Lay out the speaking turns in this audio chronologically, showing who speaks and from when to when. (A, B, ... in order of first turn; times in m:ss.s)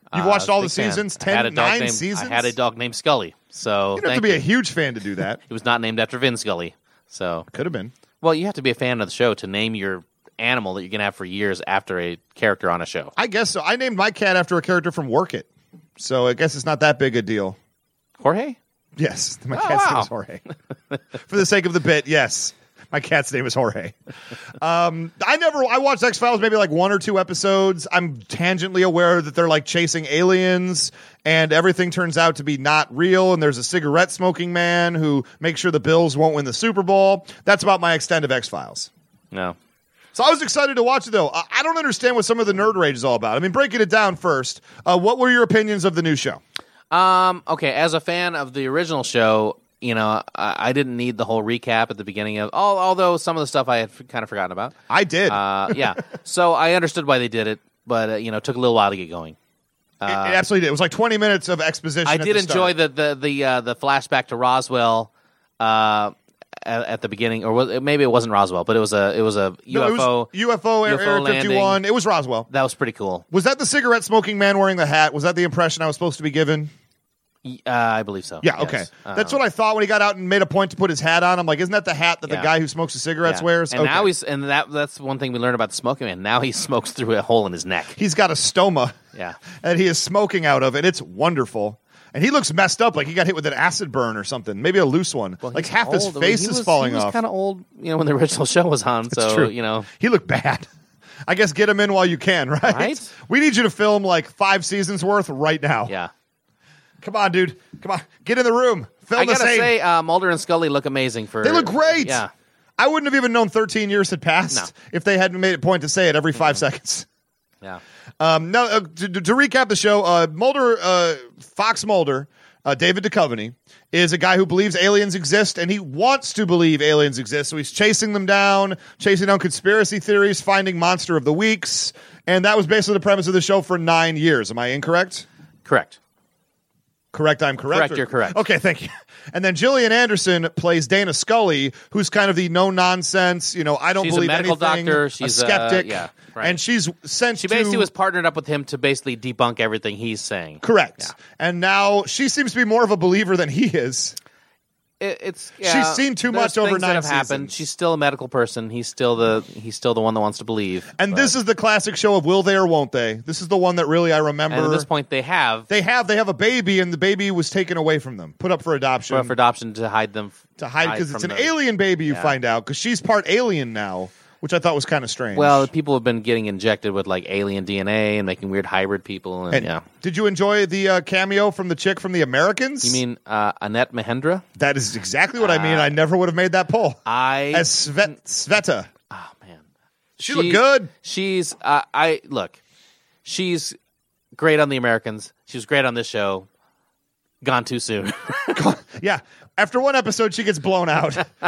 0:00.1-0:04.4 A
0:00.1-0:02.5 B
0:04.0-0:05.4 B
0:05.5-0:07.5 A
0:07.5-0:07.9 B
0:08.2-0:13.1 A
0:13.2-0:15.5 B
0:16.0-0:17.6 B
0:18.2-0:18.6 A
0:19.0-0:20.4 B
0:19.5-0:20.1 A
0:21.2-0:24.0 B
0:24.6-0:38.9 B
0:40.1-0:46.4 B
0:46.9-0:54.8 A
0:54.9-0:55.8 B
0:55.3-0:59.4 A
1:00.0-1:00.4 A
1:00.1-1:02.7 B
1:02.0-1:10.3 A
1:09.7-1:12.5 B
1:10.8-1:11.8 A
1:12.5-1:13.2 A
1:13.3-1:16.7 B
1:17.4-1:19.4 A
1:18.4-1:24.1 B
1:22.3-1:22.5 A
1:23.2-1:28.0 A
1:28.0-1:28.9 B
1:29.6-1:37.2 B
1:35.4-1:39.9 A
1:39.1-1:40.7 B
1:41.3-1:45.9 B
1:42.6-1:43.1 A
1:47.0-1:49.7 B
1:49.1-1:52.3 A
1:51.4-1:52.2 B
1:52.8-1:57.0 B
1:58.2-2:15.2 B
2:15.6-2:16.0 A
2:17.1-2:27.9 B
2:17.7-2:18.4 A
2:24.0-2:26.6 A
2:27.4-2:31.1 A
2:30.6-2:34.2 B
2:35.0-2:41.3 A
2:35.6-2:37.6 B
2:41.0-2:44.8 B
2:44.5-2:45.7 A
2:45.7-2:49.3 B
2:49.1-2:51.6 A
2:50.6-2:55.7 B
2:52.1-2:52.3 A
2:55.3-2:59.8 A
2:59.5-3:03.0 B
3:02.8-3:04.4 A
3:04.6-3:07.0 B
3:05.4-3:05.9 A
3:07.0-3:07.7 A
3:07.5-3:08.9 B
3:09.1-3:09.6 A
3:10.2-3:10.9 B
3:10.2-3:12.6 A
3:13.2-3:13.8 A
3:14.3-3:16.5 A
3:17.4-3:18.6 A
3:18.5-3:21.3 B